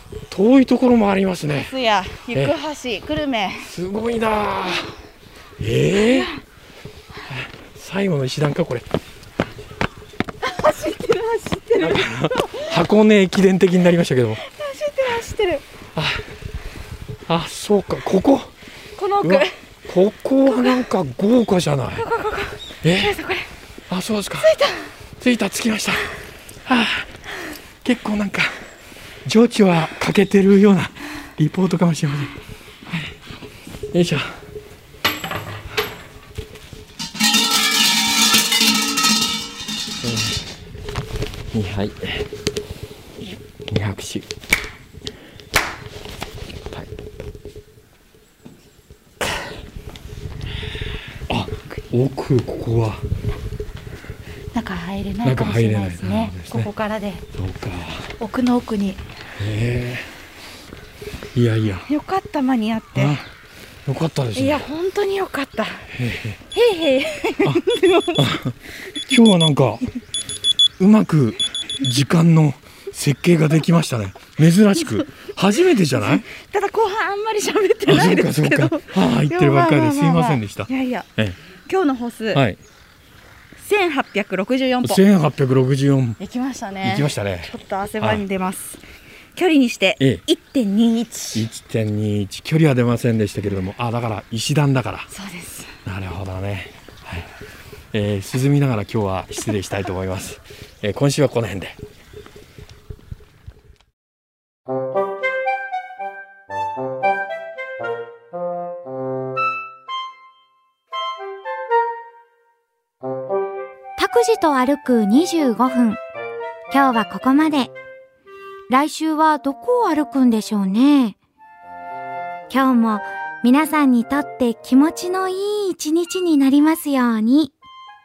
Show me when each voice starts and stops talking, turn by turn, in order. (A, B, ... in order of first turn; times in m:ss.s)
0:00.3-0:01.7 A
0:01.6-0:03.7 B
0:03.6-0:05.0 A
0:05.6-0:06.3 A
0:05.9-0:06.4 B
0:07.3-0:08.9 A
0:10.4-0:12.7 B
0:11.8-0:14.4 A
0:14.4-0:15.6 B
0:15.9-0:16.3 A
0:17.3-0:18.5 A
0:19.0-0:19.5 B
0:19.2-0:22.1 A
0:20.4-0:20.8 B
0:21.9-0:23.5 B
0:22.8-0:23.2 A
0:23.9-0:24.6 A
0:24.4-0:24.9 B
0:25.2-0:26.1 A
0:26.6-0:27.1 A
0:27.8-0:28.6 A
0:29.2-0:32.3 A
0:32.9-0:33.1 A
0:33.9-0:34.4 A
0:40.0-0:40.5 A
0:41.5-0:42.2 A
0:43.7-0:44.2 A
0:46.7-0:47.0 A
0:51.3-0:53.0 A
0:54.5-0:57.2 B
0:55.2-0:56.7 A
0:57.3-0:58.1 A
0:58.2-0:59.0 B
0:59.4-1:00.1 A
1:01.3-1:01.9 A
1:01.9-1:03.2 B
1:02.9-1:03.3 A
1:03.9-1:04.7 A
1:04.4-1:05.9 B
1:05.9-1:06.4 A
1:06.5-1:08.3 B
1:08.2-1:09.8 A
1:10.8-1:16.2 A
1:15.8-1:21.1 B
1:17.9-1:21.4 A
1:21.6-1:22.4 B
1:22.3-1:22.6 A
1:23.6-1:25.0 B
1:24.8-1:26.2 A
1:26.2-1:28.8 B
1:26.8-1:28.2 A
1:29.4-1:31.4 B
1:31.3-1:35.1 A
1:35.1-1:35.8 B
1:35.8-1:37.3 A
1:37.9-1:41.8 A
1:54.0-1:56.0 C
1:56.7-1:57.7 C
1:58.7-2:01.2 C
2:02.5-2:07.5 C